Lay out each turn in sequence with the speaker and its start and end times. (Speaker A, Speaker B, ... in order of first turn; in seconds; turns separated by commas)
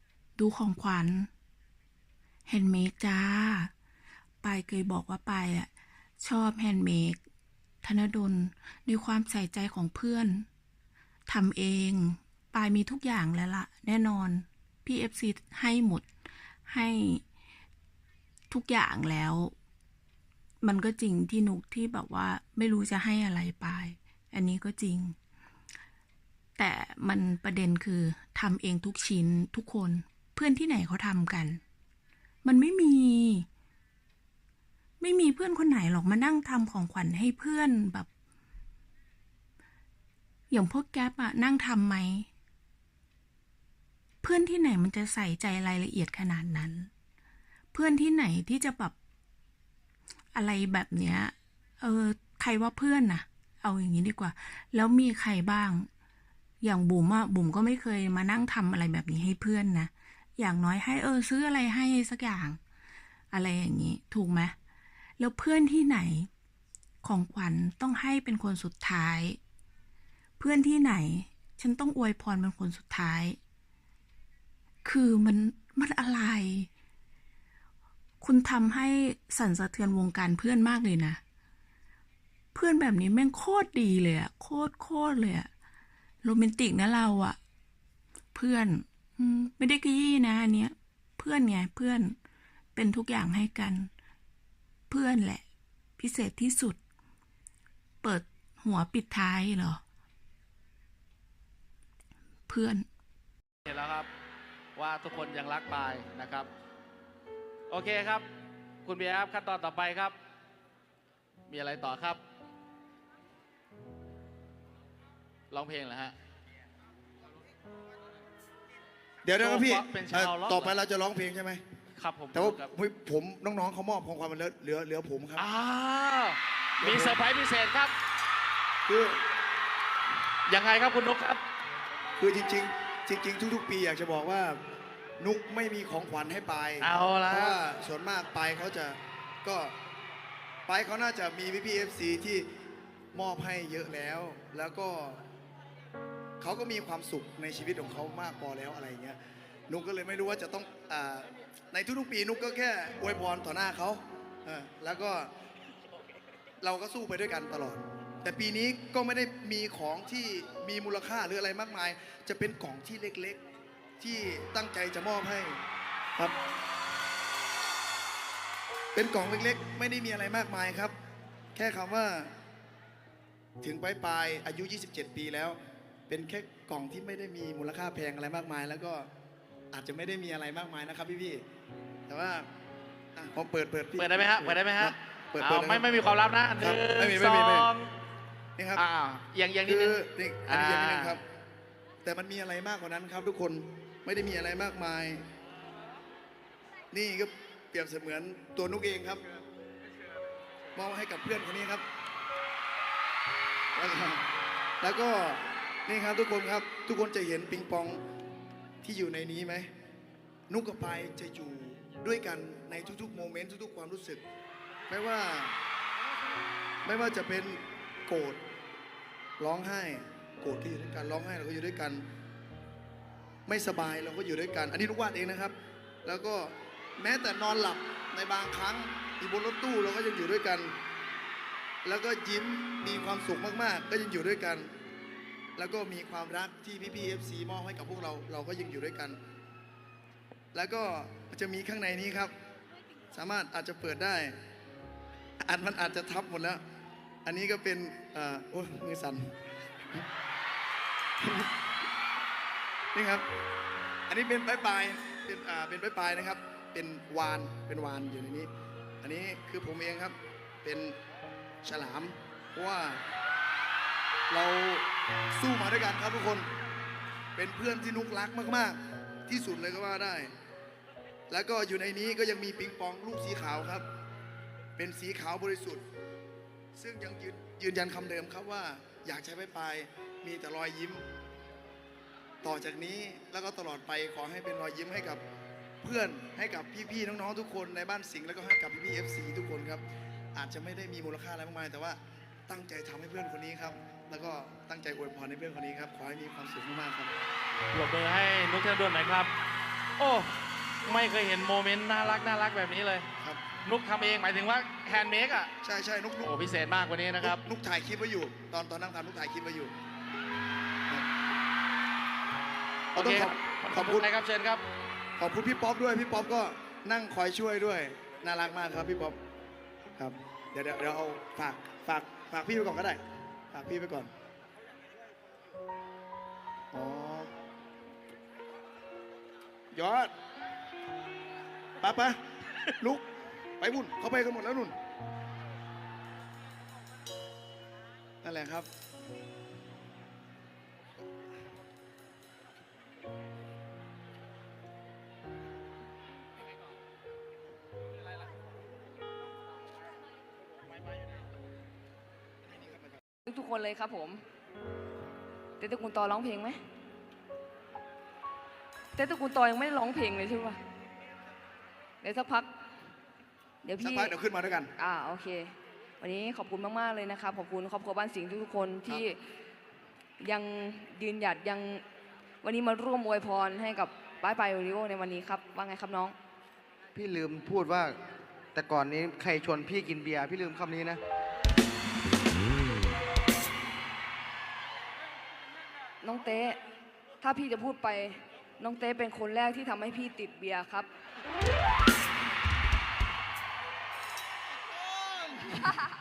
Speaker A: 0.4-1.3, Speaker A: 2.5-3.7, Speaker A: 4.4-5.7, Speaker A: 6.2-7.2, Speaker A: 7.8-10.4, Speaker A: 11.3-16.1, Speaker A: 16.7-17.2, Speaker A: 18.5-19.5, Speaker A: 20.6-25.1, Speaker A: 26.6-31.6, Speaker A: 32.4-33.5, Speaker A: 35.0-38.1, Speaker A: 40.5-42.3, Speaker A: 44.2-46.9, Speaker A: 47.7-48.9, Speaker A: 50.3-55.9, Speaker A: 56.6-62.6, Speaker A: 63.3-64.5, Speaker A: 65.2-66.3, Speaker A: 67.0-69.4, Speaker A: 70.4-73.4, Speaker A: 74.8-76.7, Speaker A: 78.2-81.2, Speaker A: 82.5-85.5, Speaker A: 86.2-87.4, Speaker A: 88.3-92.2, Speaker A: 92.7-93.9, Speaker A: 94.9-95.4, Speaker A: 96.0-96.8, Speaker A: 98.0-99.8, Speaker A: 102.5-102.8, Speaker B: 103.6-104.1, Speaker B: 104.7-106.5, Speaker B: 107.7-108.2, Speaker B: 108.8-110.2, Speaker B: 111.5-112.2, Speaker B: 115.5-116.1, Speaker C: 119.2-121.6, Speaker B: 119.4-120.7, Speaker B: 122.0-122.7, Speaker C: 122.3-125.5, Speaker B: 125.4-127.9, Speaker C: 126.8-127.2, Speaker C: 128.8-129.2, Speaker B: 130.5-131.4, Speaker C: 132.2-134.6, Speaker C: 135.2-139.7, Speaker B: 136.8-137.6, Speaker C: 140.7-142.5, Speaker C: 143.1-145.2, Speaker C: 146.4-155.3, Speaker C: 156.6-163.4, Speaker C: 164.0-165.6, Speaker C: 168.9-170.9, Speaker C: 171.5-172.3, Speaker C: 173.6-175.6, Speaker C: 176.1-179.1, Speaker C: 179.7-181.4, Speaker C: 182.1-182.5, Speaker C: 183.2-185.9, Speaker B: 184.0-187.9, Speaker C: 186.6-187.7, Speaker C: 188.6-188.8, Speaker B: 188.7-191.2, Speaker C: 189.6-191.2, Speaker C: 192.0-195.2, Speaker C: 196.9-199.2, Speaker C: 200.7-201.8, Speaker C: 203.7-204.3, Speaker C: 204.8-208.0, Speaker C: 208.8-209.7, Speaker C: 210.5-214.2, Speaker C: 214.9-215.6, Speaker C: 216.8-218.4, Speaker C: 219.4-222.1, Speaker C: 223.5-230.7, Speaker C: 231.8-234.7, Speaker C: 235.6-239.2, Speaker C: 240.5-242.3, Speaker C: 243.1-244.4, Speaker C: 245.4-246.6, Speaker C: 247.2-249.3, Speaker C: 251.2-251.5, Speaker C: 252.9-253.2, Speaker C: 254.1-258.5, Speaker C: 259.0-261.0, Speaker C: 261.6-263.0, Speaker C: 264.3-266.5, Speaker C: 267.3-270.3, Speaker C: 271.3-273.8, Speaker C: 274.8-275.8, Speaker C: 276.7-281.0, Speaker C: 282.4-285.2, Speaker C: 285.8-289.8, Speaker C: 290.3-297.1, Speaker B: 297.7-299.3, Speaker B: 300.0-300.3, Speaker B: 300.8-303.1, Speaker B: 303.6-305.5, Speaker C: 305.6-306.3, Speaker B: 306.2-307.4, Speaker C: 307.2-309.7, Speaker B: 312.9-314.6, Speaker C: 312.9-314.1, Speaker C: 315.2-319.2, Speaker C: 320.0-323.0, Speaker C: 323.5-324.1, Speaker C: 326.7-327.3, Speaker C: 329.7-330.1, Speaker C: 331.8-332.2, Speaker C: 332.8-333.0, Speaker C: 333.6-334.7, Speaker C: 338.2-338.7, Speaker D: 353.2-354.2, Speaker D: 355.6-356.6, Speaker D: 358.9-360.6, Speaker D: 362.0-362.5, Speaker D: 363.6-364.1, Speaker C: 363.8-364.7, Speaker D: 364.8-369.2, Speaker D: 370.2-371.8, Speaker D: 372.4-376.1, Speaker E: 376.9-378.0, Speaker E: 378.5-381.0, Speaker D: 386.0-386.6, Speaker D: 387.2-390.9, Speaker C: 395.1-395.6